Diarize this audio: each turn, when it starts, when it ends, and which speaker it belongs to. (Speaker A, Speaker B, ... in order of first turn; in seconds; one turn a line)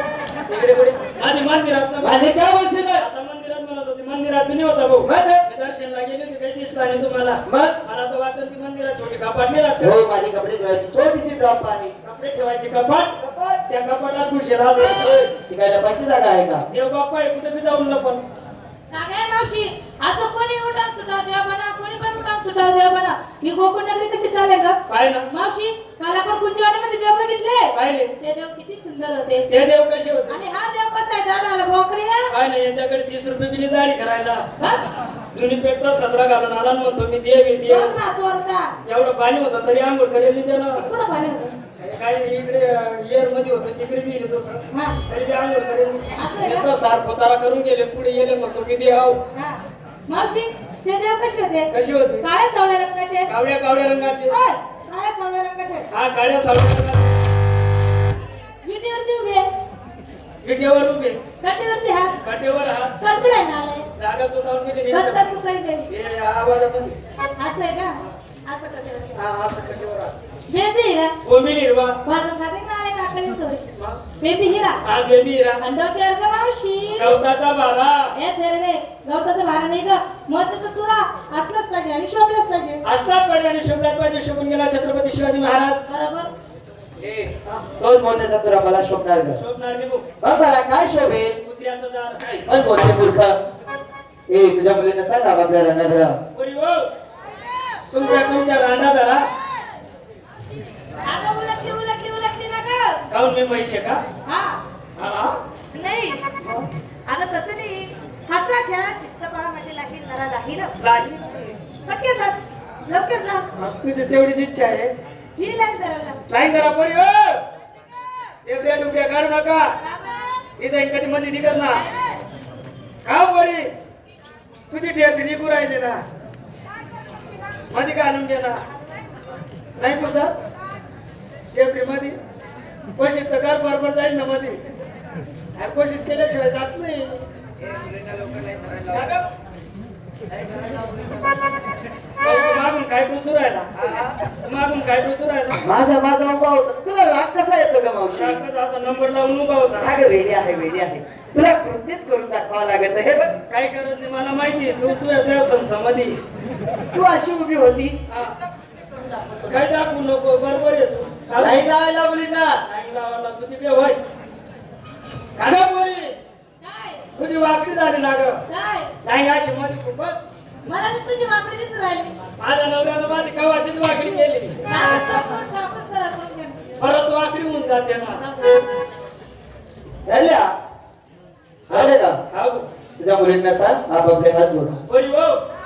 Speaker A: 0.5-1.0
Speaker B: 1.0-2.4
Speaker A: 2.0-3.0
Speaker B: 3.0-10.0
Speaker A: 5.0-5.4
Speaker A: 7.5-7.8
Speaker A: 9.8-11.9
Speaker B: 12.0-15.3
Speaker A: 13.2-13.6
Speaker A: 15.4-16.6
Speaker B: 16.7-18.2
Speaker C: 18.9-24.8
Speaker B: 24.9-25.3
Speaker C: 25.3-29.5
Speaker B: 27.8-28.1
Speaker B: 29.5-30.4
Speaker C: 30.3-32.3
Speaker B: 32.3-34.5
Speaker C: 34.6-34.8
Speaker B: 35.3-38.0
Speaker C: 37.7-38.7
Speaker B: 38.9-40.9
Speaker C: 40.8-41.5
Speaker B: 41.8-49.2
Speaker C: 44.7-45.0
Speaker C: 46.2-46.7
Speaker C: 49.3-51.7
Speaker B: 51.7-52.3
Speaker C: 52.2-53.3
Speaker B: 53.3-54.4
Speaker C: 54.3-55.9
Speaker B: 55.9-57.1
Speaker C: 58.6-59.5
Speaker B: 60.4-61.2
Speaker C: 61.4-62.1
Speaker B: 62.2-63.0
Speaker C: 63.0-63.9
Speaker B: 64.0-65.3
Speaker C: 64.9-65.9
Speaker B: 65.9-67.0
Speaker C: 67.4-69.2
Speaker B: 69.2-70.1
Speaker C: 70.5-71.1
Speaker B: 71.2-72.0
Speaker C: 72.0-74.8
Speaker B: 73.8-74.0
Speaker B: 74.8-75.6
Speaker C: 75.6-77.2
Speaker B: 77.0-78.1
Speaker C: 78.2-82.8
Speaker B: 82.8-85.8
Speaker C: 85.9-86.3
Speaker A: 87.0-89.4
Speaker B: 89.3-90.0
Speaker A: 90.2-91.4
Speaker B: 91.4-92.2
Speaker A: 92.3-93.4
Speaker A: 94.3-96.2
Speaker B: 96.3-96.9
Speaker B: 97.9-99.2
Speaker C: 101.0-103.0
Speaker B: 103.1-104.0
Speaker C: 104.3-104.6
Speaker B: 105.0-105.4
Speaker C: 105.7-106.2
Speaker C: 107.1-110.7
Speaker B: 110.8-111.2
Speaker C: 111.9-113.5
Speaker B: 113.6-114.9
Speaker C: 115.4-116.2
Speaker B: 116.3-117.4
Speaker B: 118.5-119.7
Speaker C: 119.8-120.4
Speaker B: 120.6-121.8
Speaker C: 121.7-122.2
Speaker B: 123.1-123.7
Speaker B: 124.7-126.0
Speaker B: 127.7-128.6
Speaker B: 129.8-130.3
Speaker B: 131.5-132.2
Speaker B: 133.0-134.6
Speaker B: 135.6-137.2
Speaker A: 138.2-138.8
Speaker B: 138.9-139.2
Speaker B: 142.2-143.7
Speaker A: 143.8-144.2
Speaker B: 144.3-145.7
Speaker A: 145.6-148.4
Speaker B: 148.1-150.0
Speaker A: 149.8-153.3
Speaker B: 153.5-156.2
Speaker A: 156.9-158.2
Speaker B: 158.1-158.3
Speaker A: 158.9-159.4
Speaker B: 159.4-161.7
Speaker A: 161.4-162.6
Speaker B: 162.7-164.0
Speaker B: 165.4-166.2
Speaker C: 166.6-167.0
Speaker B: 167.2-168.4
Speaker C: 168.5-168.9
Speaker B: 169.0-170.1
Speaker C: 170.7-172.1
Speaker B: 172.4-174.6
Speaker C: 174.7-176.7
Speaker B: 176.8-178.2
Speaker C: 178.2-178.6
Speaker A: 180.1-180.5
Speaker A: 181.7-182.2
Speaker B: 181.7-182.7
Speaker A: 183.0-184.8
Speaker B: 184.9-185.4